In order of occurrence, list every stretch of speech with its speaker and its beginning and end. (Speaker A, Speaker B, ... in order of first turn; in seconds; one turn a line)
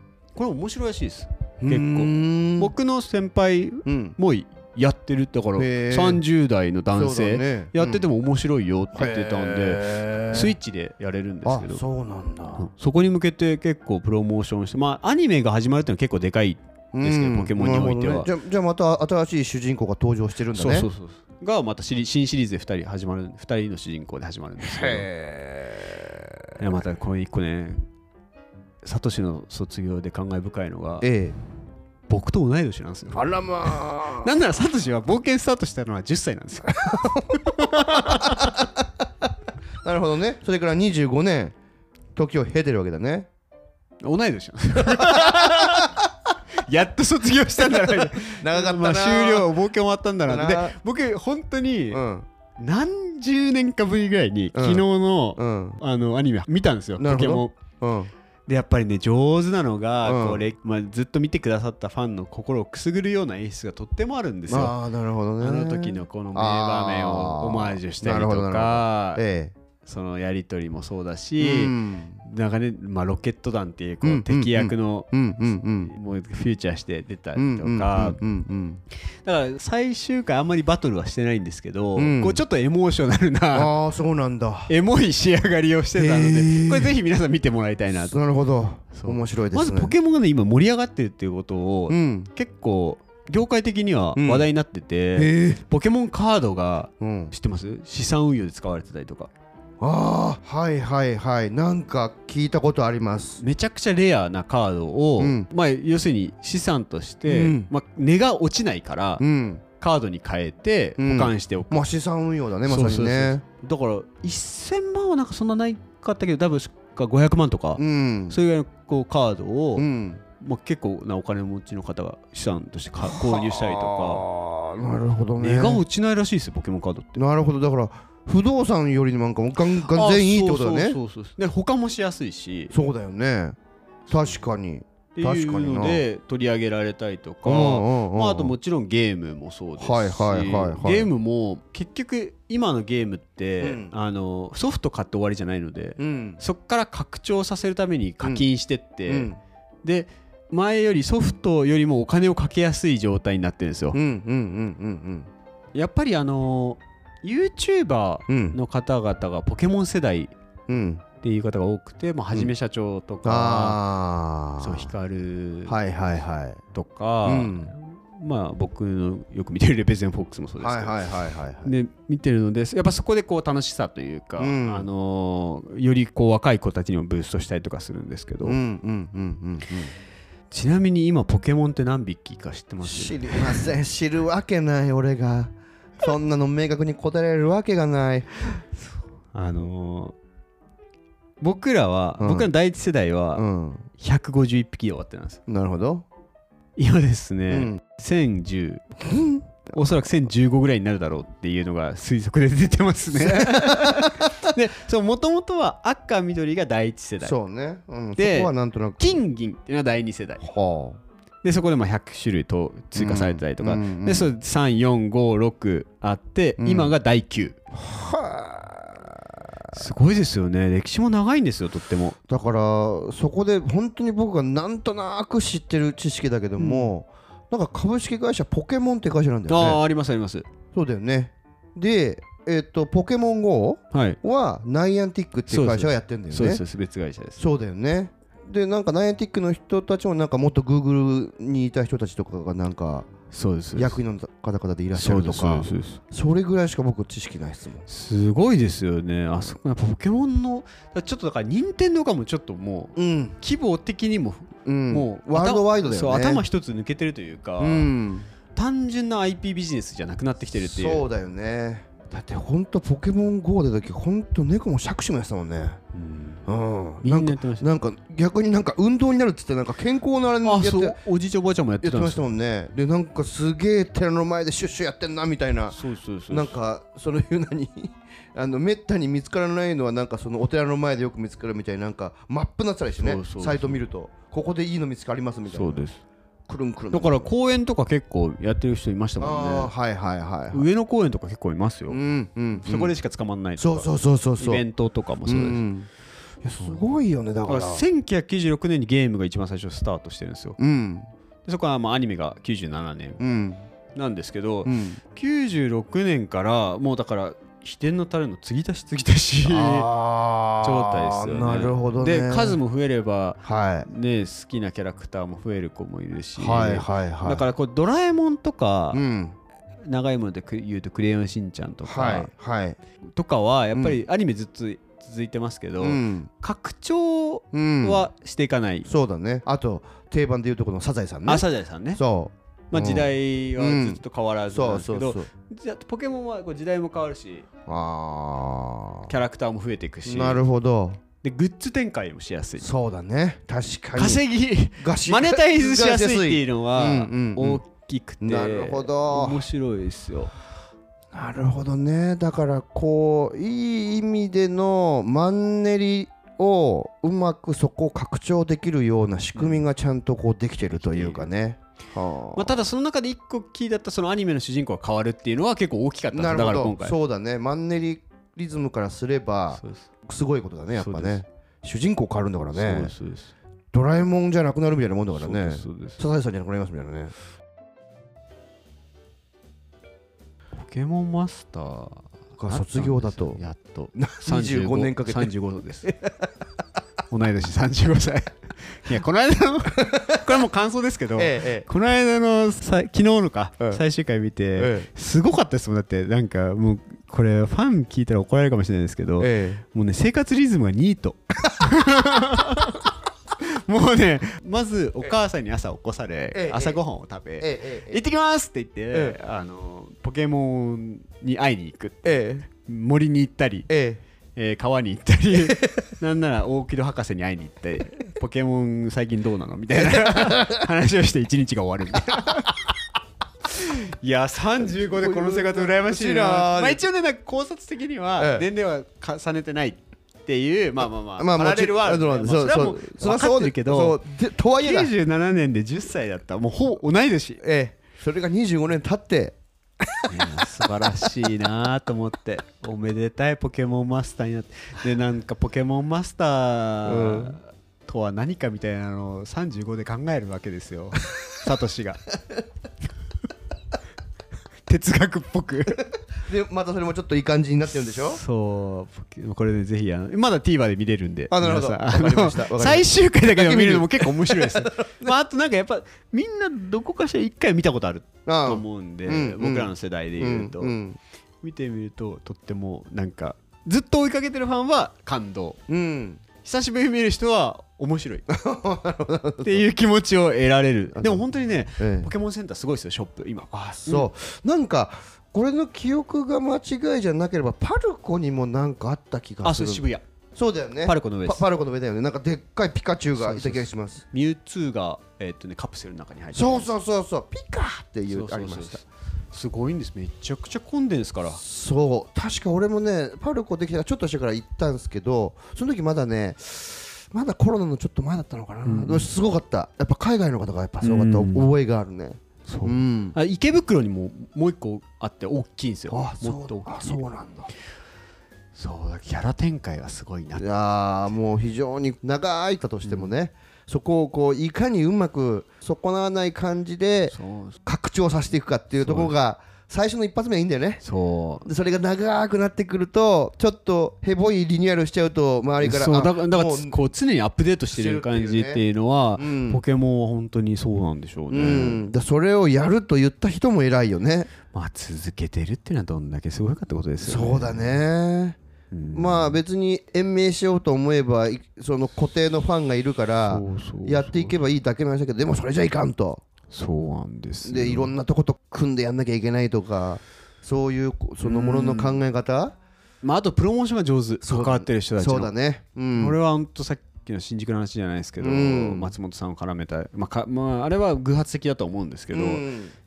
Speaker A: 0.3-11.8
Speaker B: 1.6-2.7
Speaker B: 3.9-4.2
Speaker B: 5.5-6.2
Speaker B: 6.9-8.0
Speaker B: 8.9-10.5
Speaker B: 11.4-12.7
Speaker A: 12.6-18.3
Speaker B: 16.9-20.9
Speaker A: 20.5-25.1
Speaker B: 24.6-26.6
Speaker A: 26.6-27.8
Speaker A: 28.8-31.1
Speaker B: 31.0-31.4
Speaker A: 32.1-38.6
Speaker B: 33.1-34.3
Speaker B: 36.8-38.7
Speaker B: 39.8-41.5
Speaker B: 42.1-43.3
Speaker A: 44.0-46.0
Speaker B: 44.8-46.0
Speaker A: 46.6-52.0
Speaker B: 47.7-49.5
Speaker B: 50.2-50.8
Speaker B: 51.9-52.2
Speaker A: 52.6-57.6
Speaker B: 54.5-54.8
Speaker B: 55.4-55.8
Speaker B: 57.0-58.1
Speaker A: 58.5-64.8
Speaker B: 60.0-60.5
Speaker B: 64.5-69.5
Speaker A: 65.4-69.2
Speaker A: 69.8-78.2
Speaker B: 71.4-72.2
Speaker B: 74.0-75.9
Speaker B: 77.3-78.8
Speaker A: 79.1-83.7
Speaker B: 82.0-82.4
Speaker B: 83.5-84.7
Speaker A: 84.7-88.2
Speaker B: 86.0-87.0
Speaker B: 88.0-89.9
Speaker A: 88.9-99.3
Speaker B: 91.9-92.3
Speaker B: 94.2-94.5
Speaker B: 95.1-95.6
Speaker B: 97.0-97.3
Speaker B: 99.8-103.4
Speaker A: 103.4-109.2
Speaker B: 105.2-105.5
Speaker B: 107.2-107.7
Speaker B: 109.2-109.6
Speaker A: 109.8-111.8
Speaker B: 111.0-113.4
Speaker A: 112.6-119.9
Speaker B: 117.8-118.4
Speaker B: 119.8-120.2
Speaker A: 120.4-124.2
Speaker B: 123.0-125.8
Speaker A: 125.4-127.1
Speaker B: 127.2-131.0
Speaker A: 129.7-132.7
Speaker B: 132.7-133.6
Speaker A: 134.1-134.3
Speaker B: 134.1-136.0
Speaker A: 135.1-149.3
Speaker B: 137.4-138.5
Speaker B: 139.8-141.1
Speaker B: 143.6-143.9
Speaker B: 146.0-146.4
Speaker B: 149.1-149.4
Speaker A: 149.8-154.0
Speaker B: 153.9-155.3
Speaker A: 155.7-160.3
Speaker B: 158.3-158.6
Speaker B: 160.7-161.0
Speaker A: 161.2-163.8
Speaker B: 163.2-164.9
Speaker A: 164.6-165.8
Speaker B: 165.7-166.6
Speaker A: 166.7-178.6
Speaker B: 167.2-167.7
Speaker B: 170.6-171.7
Speaker B: 174.4-174.9
Speaker B: 178.4-179.9
Speaker A: 180.5-183.7
Speaker B: 182.8-188.3
Speaker A: 188.8-190.1
Speaker A: 191.4-193.4
Speaker B: 192.2-192.5
Speaker B: 193.3-193.9
Speaker A: 194.0-195.4
Speaker B: 195.5-196.0
Speaker A: 196.8-199.0
Speaker B: 197.5-197.8
Speaker B: 199.0-199.5
Speaker A: 199.7-207.3
Speaker B: 203.1-204.4
Speaker B: 207.2-209.2
Speaker A: 208.2-210.4
Speaker B: 210.4-211.0
Speaker A: 211.4-217.6
Speaker B: 212.9-214.3
Speaker B: 216.6-216.9
Speaker B: 217.7-219.7
Speaker A: 219.7-222.2
Speaker B: 222.3-229.8
Speaker A: 226.6-226.9
Speaker A: 229.5-230.5
Speaker B: 230.7-236.6
Speaker A: 233.9-234.2
Speaker A: 235.5-237.4
Speaker B: 237.4-243.1
Speaker A: 243.3-244.0
Speaker B: 243.8-247.9
Speaker A: 244.9-246.0
Speaker A: 247.9-257.9
Speaker B: 252.9-253.3
Speaker B: 254.7-256.4
Speaker B: 257.6-258.3
Speaker A: 258.5-261.1
Speaker B: 260.6-265.8
Speaker A: 265.9-266.4
Speaker B: 266.5-271.0
Speaker A: 267.0-267.7
Speaker A: 270.4-272.2
Speaker B: 271.8-285.8
Speaker A: 275.7-276.5
Speaker A: 283.0-283.8
Speaker A: 285.5-286.0
Speaker B: 286.5-287.3
Speaker A: 286.9-289.7
Speaker B: 289.2-290.6
Speaker A: 290.5-292.0
Speaker B: 291.9-292.9
Speaker A: 292.6-295.6
Speaker B: 293.6-294.6
Speaker B: 295.2-295.9
Speaker B: 296.4-297.8
Speaker A: 296.6-296.9
Speaker A: 297.4-300.6
Speaker B: 300.6-301.1
Speaker A: 301.4-303.2
Speaker B: 303.2-303.6
Speaker A: 303.9-309.9
Speaker B: 304.6-305.0
Speaker B: 309.4-312.6
Speaker A: 310.6-319.0
Speaker B: 313.4-313.9
Speaker B: 316.4-317.4
Speaker B: 318.9-319.4
Speaker A: 319.8-322.3
Speaker B: 321.8-322.8
Speaker A: 323.1-328.9
Speaker B: 323.7-324.0
Speaker B: 325.8-326.3
Speaker B: 327.5-328.1
Speaker B: 328.9-335.3
Speaker A: 331.2-332.0
Speaker A: 332.7-337.4
Speaker B: 337.7-339.1
Speaker A: 339.1-340.4
Speaker B: 340.0-341.0
Speaker A: 341.2-342.7
Speaker B: 342.6-344.2
Speaker A: 343.9-350.3
Speaker B: 344.8-347.6
Speaker B: 348.2-349.4
Speaker B: 351.1-362.6
Speaker A: 359.3-359.6
Speaker A: 360.7-361.3
Speaker A: 362.3-366.9
Speaker B: 366.1-372.9
Speaker A: 369.6-369.8
Speaker A: 370.8-371.2
Speaker A: 372.5-373.3
Speaker B: 373.7-377.1
Speaker A: 375.1-376.0
Speaker A: 380.6-385.9
Speaker B: 382.4-383.4
Speaker B: 383.9-386.3
Speaker A: 387.1-413.7
Speaker B: 389.8-390.1
Speaker B: 391.1-391.6
Speaker B: 394.6-394.9
Speaker B: 399.2-399.6
Speaker B: 406.3-406.8
Speaker B: 407.4-408.0
Speaker B: 408.9-409.2
Speaker B: 412.0-412.4
Speaker B: 413.7-414.0
Speaker A: 414.4-422.7
Speaker B: 415.3-415.8
Speaker B: 419.7-420.7
Speaker A: 423.4-437.4
Speaker B: 424.6-426.8
Speaker B: 428.2-428.4
Speaker B: 431.1-434.9
Speaker B: 437.4-439.4
Speaker B: 439.9-440.3
Speaker A: 440.1-452.0
Speaker B: 446.9-447.4
Speaker A: 454.6-455.9
Speaker B: 456.2-458.2
Speaker A: 457.8-470.8
Speaker B: 461.3-465.1
Speaker B: 468.2-471.0
Speaker A: 471.4-475.6
Speaker B: 475.7-476.2
Speaker A: 476.4-478.2
Speaker B: 478.3-479.6
Speaker A: 479.4-484.1
Speaker B: 480.9-481.2
Speaker B: 481.8-482.1
Speaker B: 483.8-494.0
Speaker A: 489.4-490.0
Speaker A: 490.8-491.4
Speaker A: 493.2-496.7
Speaker B: 496.3-498.8
Speaker A: 498.1-501.4
Speaker B: 501.3-513.1
Speaker A: 508.6-509.1
Speaker A: 510.8-511.5
Speaker A: 512.5-517.0
Speaker B: 515.9-517.5
Speaker A: 518.5-520.4
Speaker B: 520.4-530.8
Speaker A: 522.8-523.1
Speaker A: 527.1-527.6
Speaker A: 528.8-529.1
Speaker A: 530.8-531.5
Speaker B: 531.4-536.9
Speaker A: 535.6-541.9
Speaker B: 537.7-538.6
Speaker B: 539.1-539.6
Speaker B: 541.3-544.3
Speaker A: 544.5-547.8
Speaker B: 547.0-548.4
Speaker A: 548.7-549.4
Speaker B: 548.9-556.2
Speaker A: 553.2-554.4
Speaker A: 556.5-557.9
Speaker B: 557.4-562.5
Speaker A: 561.2-562.0
Speaker A: 563.0-565.3
Speaker B: 564.2-566.2
Speaker A: 565.9-572.4
Speaker B: 568.2-568.9
Speaker B: 572.1-572.7